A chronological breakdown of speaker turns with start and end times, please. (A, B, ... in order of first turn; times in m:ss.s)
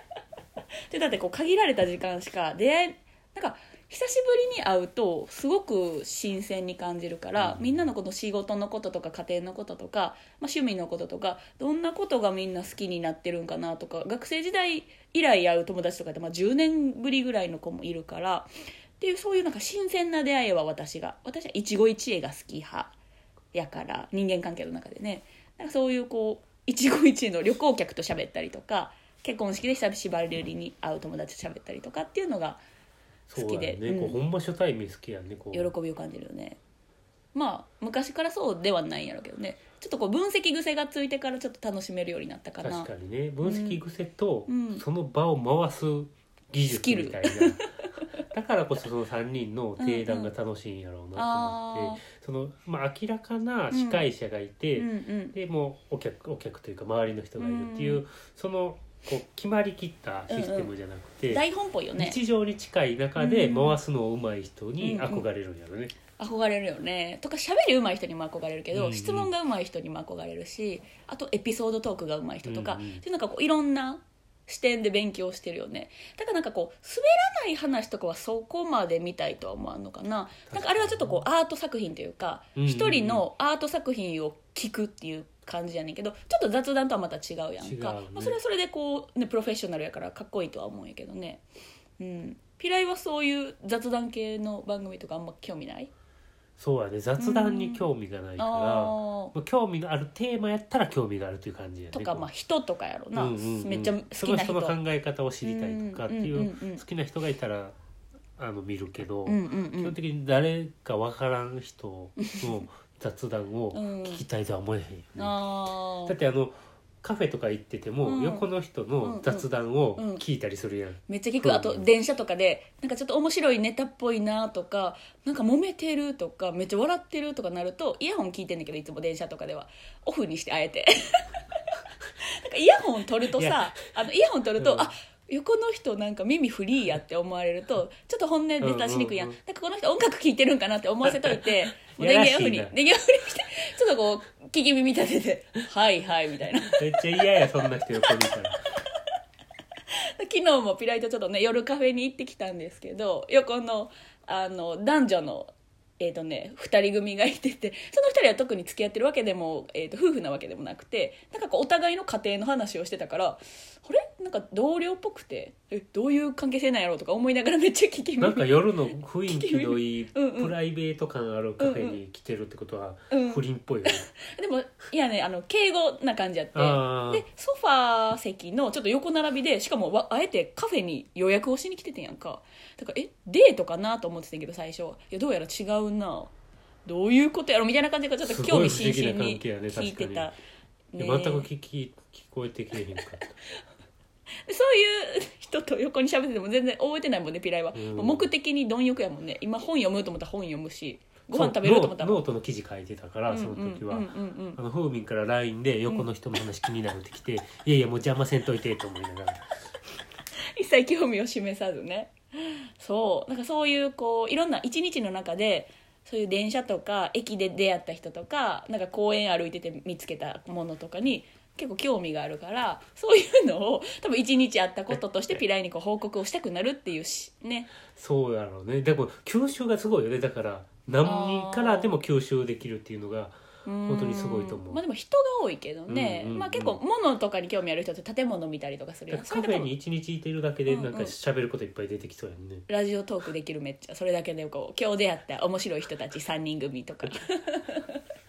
0:00.9-0:18.5 A
0:07.4-0:07.9 B
0:19.0-0:22.9 A
0:23.5-0:32.6 A
0:33.3-0:35.7 B
0:33.3-0:34.2 A
0:35.5-0:36.6 A
0:37.3-0:42.9 A
0:42.6-0:47.6 B
0:43.4-0:43.8 A
0:44.5-0:44.8 A
0:46.6-0:48.1 A
0:48.3-1:01.4 B
0:49.8-0:50.3 A
0:51.2-0:52.0 A
0:53.7-0:54.1 A
0:54.8-0:55.3 A
0:57.4-0:58.0 A
1:00.3-1:00.7 A
1:01.3-1:02.2 A
1:02.0-1:05.9 B
1:03.2-1:03.8 A
1:04.8-1:05.2 A
1:06.2-1:31.4 A
1:08.7-1:09.3 B
1:12.4-1:13.0 B
1:20.5-1:21.2 B
1:22.6-1:23.2 B
1:27.6-1:28.4 B
1:32.0-1:35.9 A
1:36.6-1:42.3 B
1:37.2-1:37.9 A
1:38.4-1:39.3 A
1:41.9-1:44.8 A
1:43.1-1:47.8 B
1:45.4-1:46.8 A
1:48.4-1:55.4 B
1:49.2-1:50.0 A
1:52.2-1:52.6 A
1:53.7-1:54.2 A
1:55.2-1:56.1 A
1:56.0-2:01.9 B
1:58.0-1:58.5 A
1:59.0-2:00.2 A
2:01.1-2:28.1 A
2:13.4-2:13.8 B
2:14.6-2:14.9 B
2:18.6-2:19.4 B
2:21.0-2:22.7 B
2:26.7-2:28.6 B
2:29.9-2:50.5 A
2:48.2-2:54.1 B
2:51.6-2:52.0 A
2:53.1-3:06.3 A
2:56.5-2:57.2 B
3:06.8-3:10.4 A
3:08.2-3:10.3 B
3:10.9-3:11.5 A
3:11.0-3:13.2 B
3:14.4-3:22.2 A
3:17.7-3:18.3 B
3:21.3-3:29.5 B
3:23.3-3:24.6 A
3:30.6-3:47.7 A
3:44.9-3:45.4 B
3:47.9-3:54.8 B
3:51.0-3:51.9 A
3:53.6-3:59.7 A
3:55.9-3:56.8 B
3:59.1-4:02.6 B
4:00.7-4:01.1 A
4:02.7-4:08.0 A